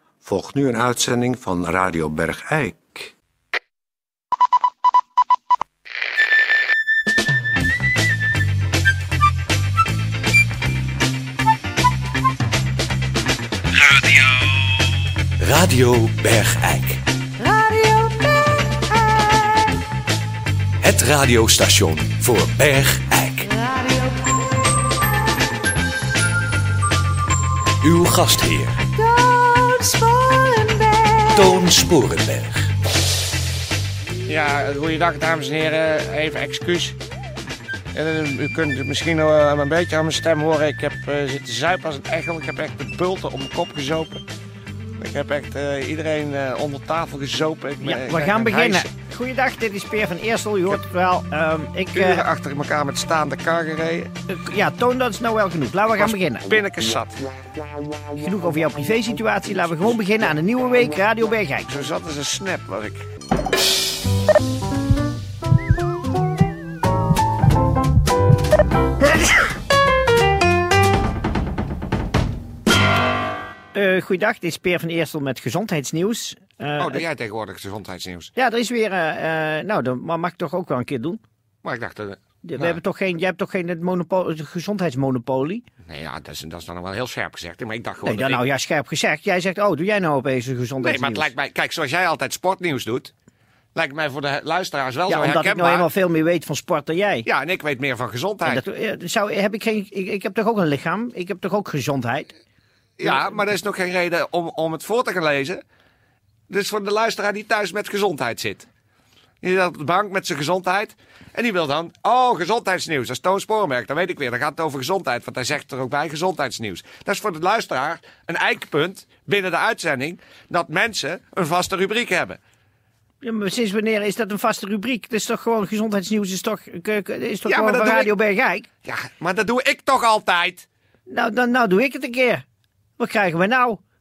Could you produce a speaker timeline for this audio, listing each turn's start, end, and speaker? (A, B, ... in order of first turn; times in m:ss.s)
0:00.2-0:03.1 A
0:13.8-0:14.4 B
0:15.4-0:17.0 B
0:20.8-0:23.5 B
0:27.8-0:28.8 B
0:29.0-0:31.5 C
0:31.3-0:32.7 B
0:34.2-0:37.0 D
0:37.9-0:44.2 D
0:45.0-0:48.9 D
0:47.8-0:52.2 E
0:51.9-0:54.1 D
0:54.3-0:56.5 E
0:55.9-0:57.3 D
0:58.2-1:01.7 E
1:01.7-1:03.0 D
1:13.7-1:17.0 E
1:16.8-1:18.3 D
1:18.4-1:21.2 E
1:21.6-1:22.8 D
1:22.4-1:25.6 E
1:25.8-1:28.4 D
1:28.0-1:31.3 E
1:30.8-1:33.1 D
1:33.7-1:35.9 D
1:35.1-1:37.3 E
1:37.2-1:38.6 D
1:38.4-1:42.3 E
1:43.0-1:45.6 D
1:46.5-1:48.7 D
1:49.4-2:02.4 D
2:03.2-2:08.7 E
2:07.4-2:08.1 D
2:08.8-2:10.6 D
2:11.1-2:12.4 E
2:13.0-2:13.8 E